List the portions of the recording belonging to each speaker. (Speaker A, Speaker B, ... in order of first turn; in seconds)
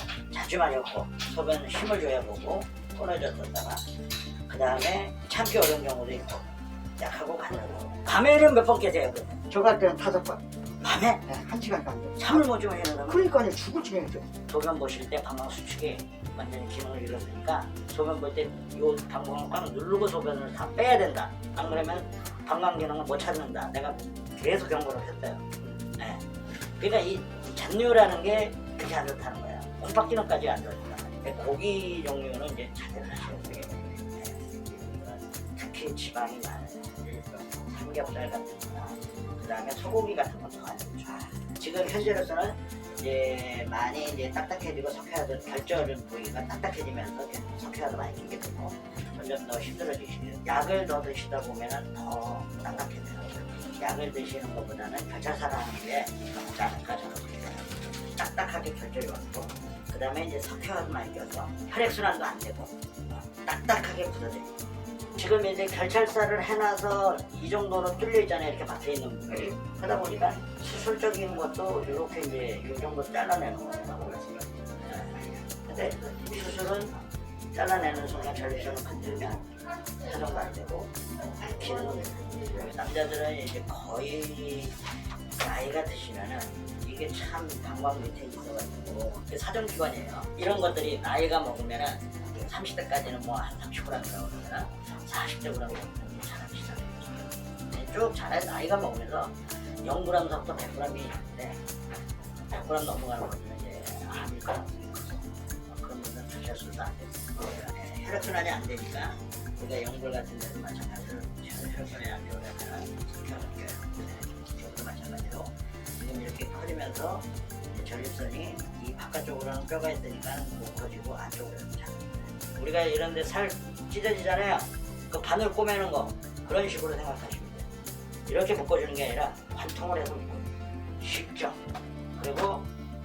Speaker A: 0.3-3.9, 4.5-6.5, 7.0-9.5, 10.8-11.4, 12.2-13.3, 14.3-64.5, 65.2-77.0, 77.5-84.8, 85.3-101.6, 102.5-127.7, 128.3-131.6, 132.2-132.7
Speaker B: 9.5-10.4, 11.3-12.2, 13.1-14.3